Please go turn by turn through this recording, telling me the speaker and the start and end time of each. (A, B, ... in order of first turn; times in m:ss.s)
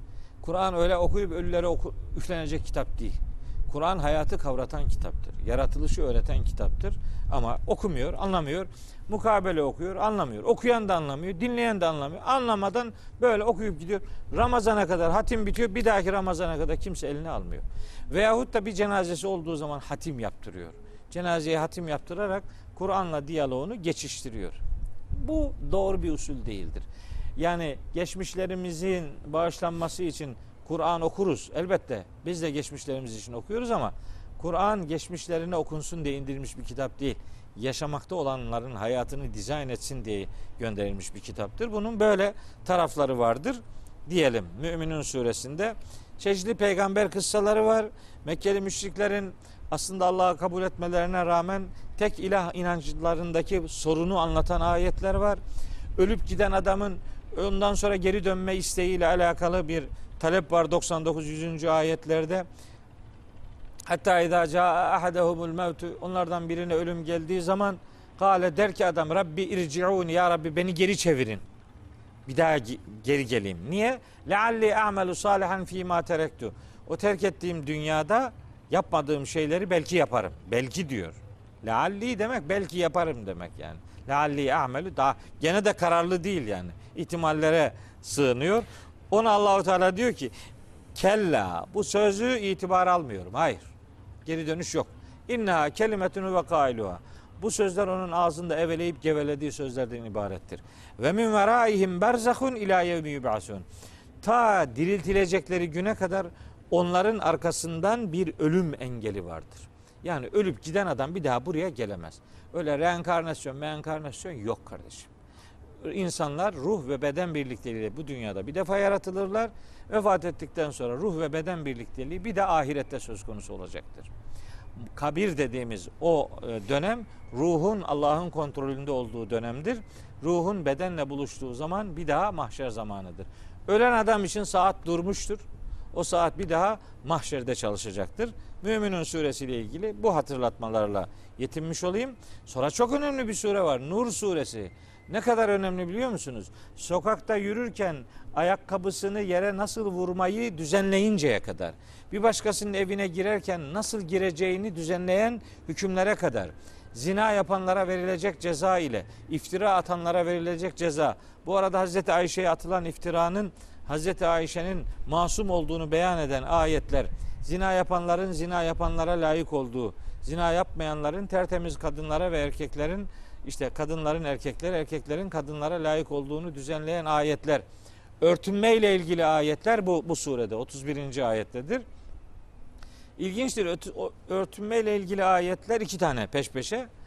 0:00.4-0:24.6 A
0:25.1-0:55.4 A
0:56.0-1:02.5 A
1:03.9-1:11.4 A
1:12.3-1:30.3 A
1:31.0-1:33.7 A
1:34.2-1:43.7 A
1:44.2-1:55.1 A
1:55.8-2:04.1 A
2:05.0-2:57.6 A
2:58.2-3:01.8 A
3:03.2-3:06.9 A